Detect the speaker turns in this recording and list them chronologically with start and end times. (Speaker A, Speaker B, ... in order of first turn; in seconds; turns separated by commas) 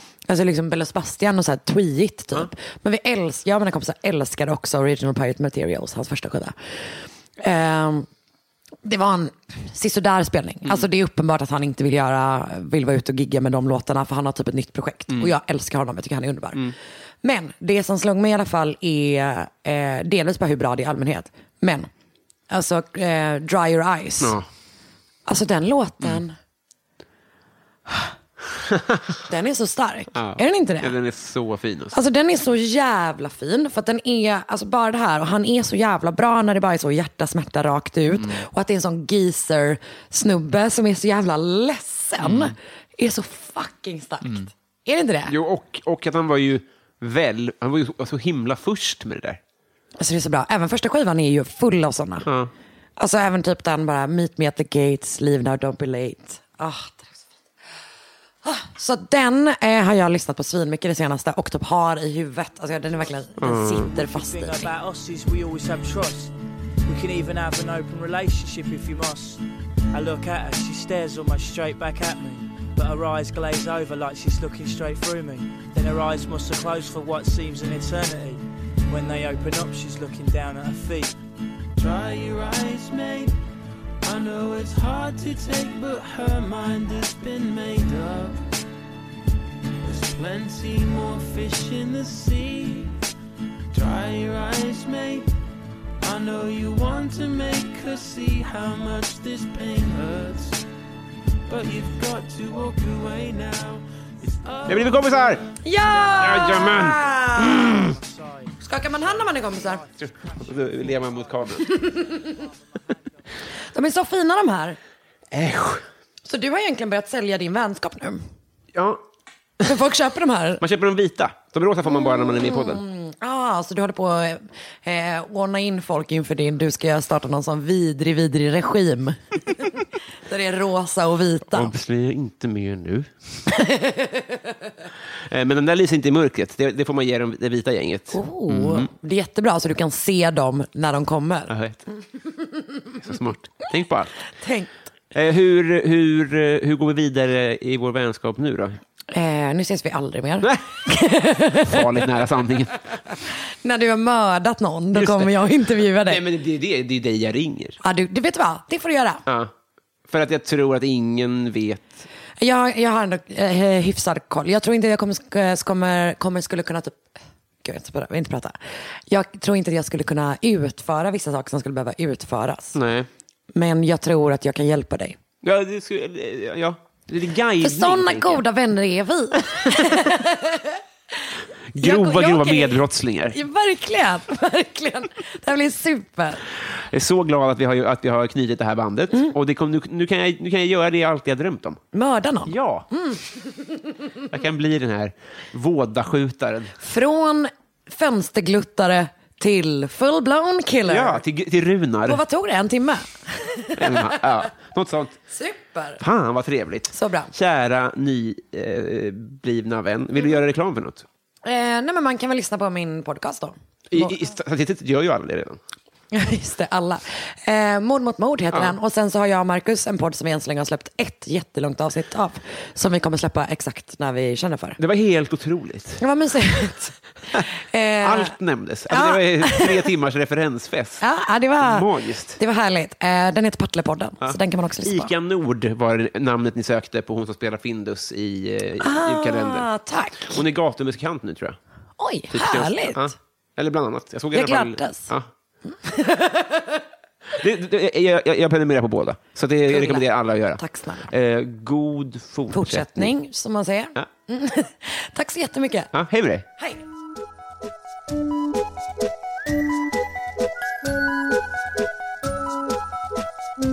Speaker A: 0.3-6.5, Speaker A: 7.4-8.1, Speaker A: 8.8-21.9, Speaker A: 22.5-24.4, Speaker B: 24.2-24.5, Speaker A: 25.2-26.4, Speaker B: 28.6-29.0, Speaker A: 29.3-30.9, Speaker B: 30.1-32.0, Speaker A: 31.9-45.3, Speaker B: 42.2-42.5, Speaker B: 45.2-49.4, Speaker A: 50.0-52.3, Speaker B: 52.2-52.5, Speaker A: 53.0-57.2, Speaker A: 58.4-64.7, Speaker B: 63.4-63.9, Speaker C: 63.5-66.3, Speaker C: 66.8-81.2, Speaker D: 81.8-83.4, Speaker D: 84.0-88.4, Speaker D: 89.8-93.0, Speaker D: 93.7-95.3, Speaker D: 96.0-100.6, Speaker D: 101.5-105.5, Speaker B: 104.7-105.4, Speaker A: 105.6-107.7, Speaker C: 105.8-113.3, Speaker B: 106.2-108.0, Speaker A: 108.6-109.8, Speaker B: 110.0-111.7, Speaker A: 111.6-112.4, Speaker A: 113.7-114.8, Speaker B: 115.3-115.8, Speaker A: 116.2-118.2, Speaker B: 118.7-119.0, Speaker A: 119.6-120.6, Speaker B: 120.6-122.8, Speaker A: 121.9-131.7, Speaker B: 131.5-133.1, Speaker A: 133.5-134.5, Speaker B: 135.2-138.9, Speaker A: 138.1-141.5, Speaker B: 141.5-141.8, Speaker B: 143.0-144.1, Speaker A: 144.4-144.7, Speaker B: 145.1-148.8, Speaker A: 149.1-151.8, Speaker B: 150.4-150.7, Speaker B: 151.5-152.8, Speaker A: 153.6-156.2, Speaker B: 154.9-157.8, Speaker A: 157.8-159.2, Speaker B: 159.2-159.5, Speaker B: 160.1-162.0, Speaker A: 162.4-167.0, Speaker A: 167.6-168.6, Speaker A: 169.1-172.8, Speaker B: 172.7-173.1, Speaker A: 173.5-175.2, Speaker B: 175.4-178.4, Speaker A: 177.6-180.8, Speaker B: 181.7-183.4, Speaker A: 181.8-186.4, Speaker B: 186.7-191.8, Speaker A: 191.9-194.0, Speaker B: 192.4-192.9, Speaker B: 194.3-196.7, Speaker A: 196.8-201.2, Speaker B: 200.9-202.2, Speaker A: 202.1-204.2, Speaker B: 203.8-205.2, Speaker A: 205.3-206.0, Speaker B: 206.0-211.1, Speaker A: 206.9-207.3, Speaker A: 211.4-214.1, Speaker B: 213.9-215.6, Speaker A: 216.1-224.8, Speaker B: 224.8-226.0, Speaker A: 226.0-228.3, Speaker B: 228.0-231.0, Speaker A: 228.9-229.9, Speaker A: 231.0-235.1, Speaker B: 231.6-232.4, Speaker B: 234.2-241.6, Speaker A: 238.8-240.4, Speaker A: 242.0-243.1, Speaker B: 242.3-245.3, Speaker A: 244.3-245.1, Speaker A: 245.7-246.8, Speaker B: 247.3-253.1, Speaker A: 249.7-251.1, Speaker A: 252.5-255.9, Speaker B: 255.9-256.4